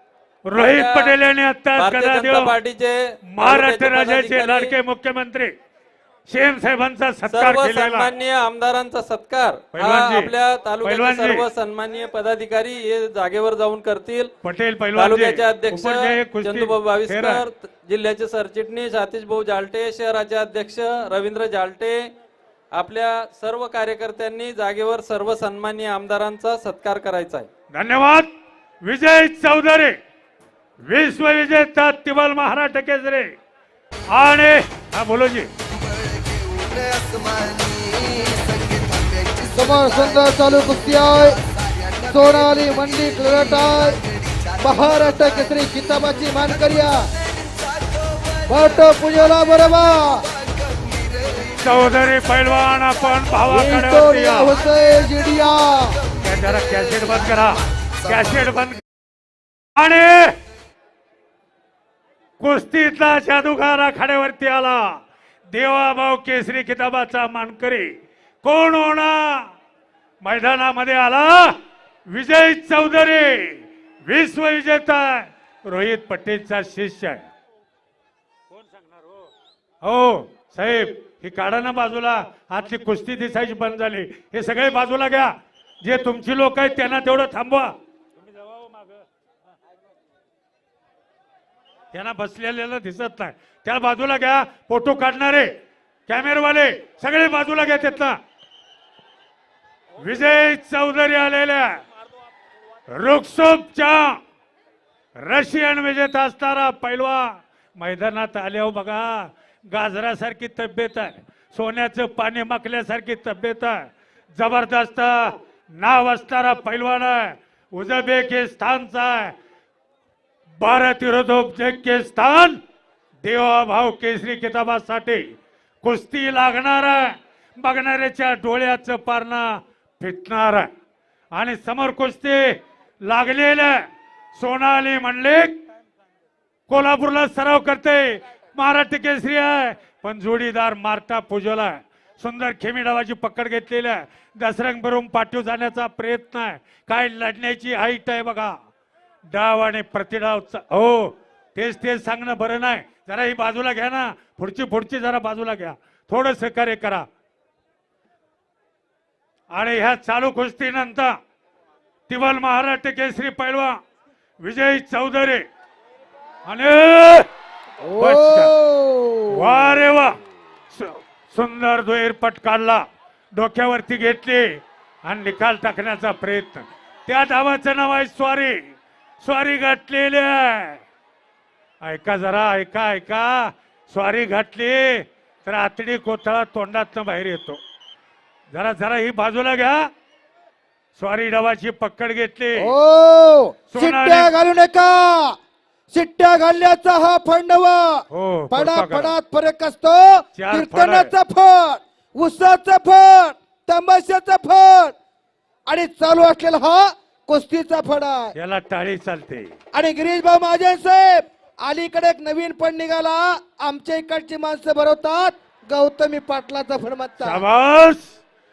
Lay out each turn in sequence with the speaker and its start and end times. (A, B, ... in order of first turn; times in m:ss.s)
0:00.4-0:02.6 A
0:00.5-0:01.2 B
0:01.8-0:04.7 B
0:03.3-0:05.5 A
0:06.3-0:08.1 A
0:07.3-0:14.3 B
0:09.7-0:11.4 A
0:14.4-0:17.4 A
0:15.0-0:22.0 B
0:22.7-0:27.5 B
0:27.7-0:28.3 A
0:28.8-0:30.0 A
0:30.8-0:33.3 A
0:34.1-0:35.5 A
0:39.5-0:41.4 C
0:42.1-0:44.0 C
0:44.6-0:47.0 C
0:48.4-0:50.2 C
0:51.5-0:54.6 A
0:53.5-0:56.0 C
0:56.2-0:58.8 A
0:59.8-1:00.4 A
1:02.4-1:07.9 A
1:08.4-1:09.5 A
1:10.2-1:17.3 A
1:19.8-1:27.7 A
1:31.9-1:35.5 A
1:36.1-1:38.2 A
1:40.0-1:41.8 A
1:42.9-1:44.2 A
1:45.2-1:59.3 A
2:00.6-2:02.6 A
2:03.2-2:10.7 A
2:11.3-2:15.6 A
2:16.7-2:28.6 A
2:29.3-2:37.1 A
2:39.5-2:41.2 A
2:42.1-2:43.8 A
2:44.4-2:45.4 A
2:46.4-2:47.3 A
2:47.8-2:49.7 C
2:48.0-2:48.5 A
2:49.3-2:50.2 A
2:50.7-3:00.8 A
3:01.8-3:07.6 A
3:08.5-3:09.9 A
3:11.0-3:12.7 A
3:12.5-3:15.4 C
3:13.7-3:14.3 A
3:15.9-3:24.9 C
3:18.1-3:19.2 A
3:20.4-3:21.1 A
3:25.6-3:28.3 C
3:28.3-3:29.6 A
3:29.7-3:37.4 C
3:37.2-3:38.2 A